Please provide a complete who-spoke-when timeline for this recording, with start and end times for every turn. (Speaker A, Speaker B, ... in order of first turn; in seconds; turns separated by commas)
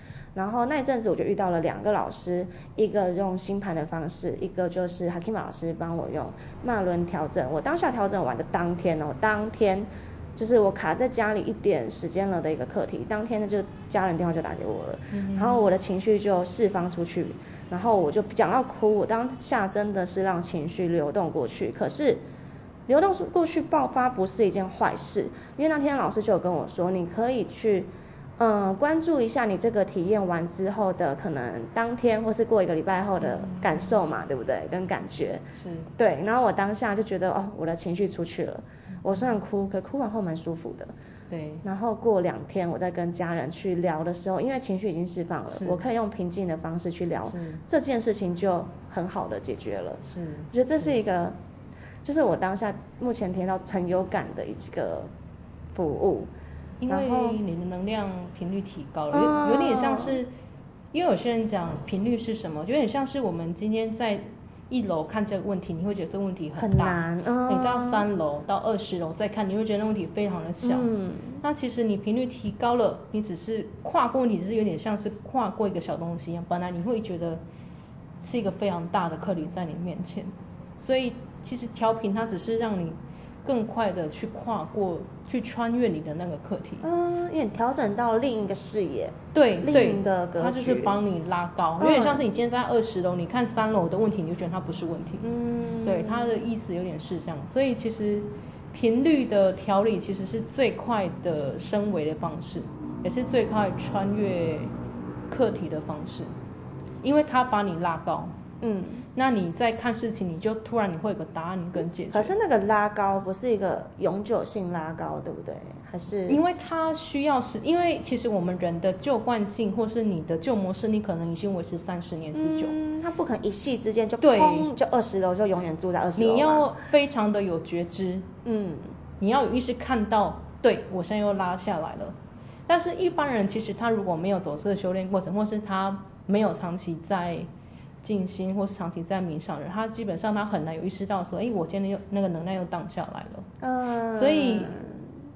Speaker A: 0.3-22.2, Speaker B: 15.1-15.7, Speaker A: 22.9-35.5, Speaker B: 33.4-33.8, Speaker B: 35.5-35.9, Speaker A: 36.0-40.9, Speaker B: 41.3-41.6, Speaker A: 41.6-51.4, Speaker B: 45.5-45.8, Speaker B: 47.2-47.6, Speaker B: 50.0-50.9, Speaker A: 52.0-55.1, Speaker A: 55.7-56.3, Speaker B: 56.8-60.3, Speaker A: 56.9-57.4, Speaker A: 59.1-60.2, Speaker B: 60.9-77.4, Speaker A: 66.6-68.0, Speaker A: 70.6-71.4, Speaker B: 78.2-86.9, Speaker A: 86.8-91.0, Speaker B: 89.3-95.3, Speaker A: 91.8-92.2, Speaker A: 95.2-96.4, Speaker B: 95.8-104.7, Speaker B: 105.3-106.3, Speaker B: 107.0-108.3, Speaker A: 108.6-109.0, Speaker B: 109.1-112.3, Speaker A: 112.1-116.4, Speaker B: 116.3-122.7, Speaker A: 122.3-126.7, Speaker B: 124.2-124.7, Speaker B: 126.2-128.3, Speaker A: 128.4-128.9, Speaker B: 129.2-132.2, Speaker B: 132.7-137.5, Speaker B: 138.0-143.5, Speaker A: 143.6-145.0, Speaker B: 144.1-144.7